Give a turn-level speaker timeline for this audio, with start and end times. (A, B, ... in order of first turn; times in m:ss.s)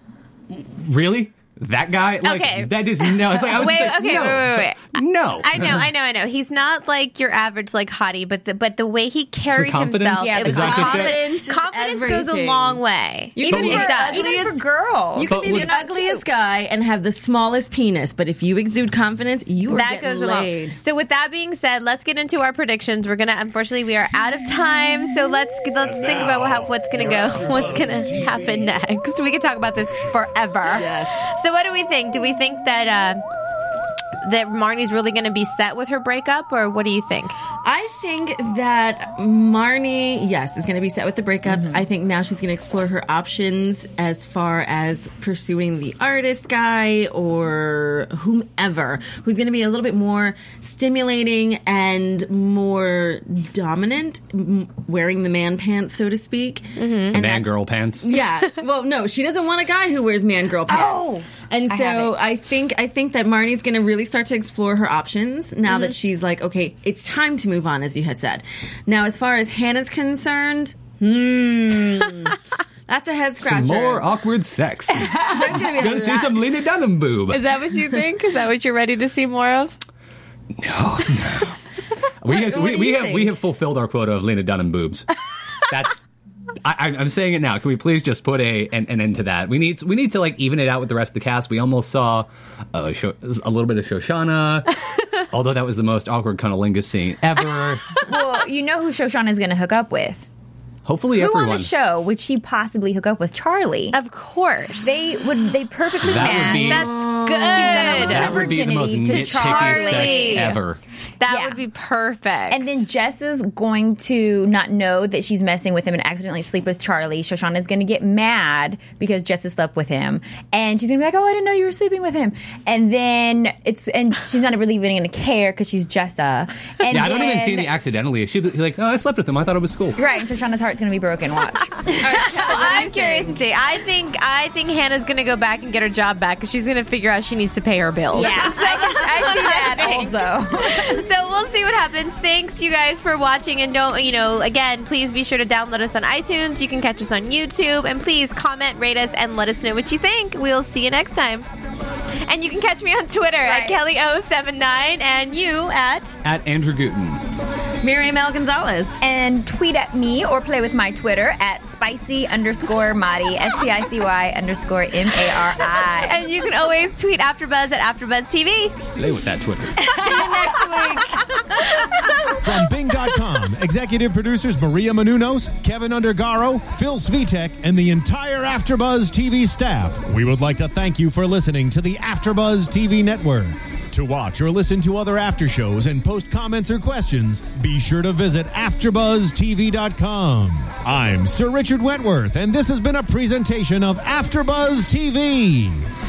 0:00.5-0:05.9 A
0:02.2-0:14.4 B
0:09.5-0:11.2 A
0:10.2-0:11.0 C
0:10.5-0:12.8 D
0:13.3-0:14.6 D
0:13.4-0:16.2 C
0:15.1-0:20.8 D
0:15.3-0:15.7 A
0:19.7-0:33.2 B
0:30.7-0:31.2 D
0:34.2-0:37.3 B
0:37.6-1:14.1 D
0:41.5-0:41.8 C
0:56.8-0:57.1 B
0:57.1-0:58.1 A
1:00.7-1:02.2 C
1:13.4-1:17.5 A
1:15.1-1:16.5 D
1:17.3-1:19.7 B
1:20.6-1:21.6 A
1:22.2-1:25.1 A
1:22.3-1:23.3 D
1:25.7-1:26.0 A
1:26.6-1:34.8 A
1:35.3-1:38.0 A
1:38.0-1:40.2 C
1:40.8-1:41.7 A
1:41.2-1:44.0 C
1:43.9-1:44.9 B
1:44.8-1:46.8 C
1:46.0-1:46.9 A
1:46.5-1:48.5 D
1:46.6-1:48.4 B
1:47.5-1:50.6 C
1:47.8-1:50.8 A
1:49.1-1:50.6 B
1:51.2-1:52.6 B
1:51.3-1:51.6 C
1:52.5-2:07.7 C
2:06.9-2:10.0 A
2:10.0-2:12.6 C
2:12.0-2:13.4 D
2:12.0-2:31.5 B
2:18.1-2:21.0 C
2:18.2-2:18.7 D
2:32.2-2:36.2 B
2:33.4-2:33.8 C
2:36.2-2:37.2 A
2:37.8-2:39.0 D
2:39.0-2:46.2 C
2:46.0-2:48.8 B
2:48.9-2:49.8 A
2:49.8-2:50.8 C
2:49.8-2:51.4 D
2:52.4-3:15.8 E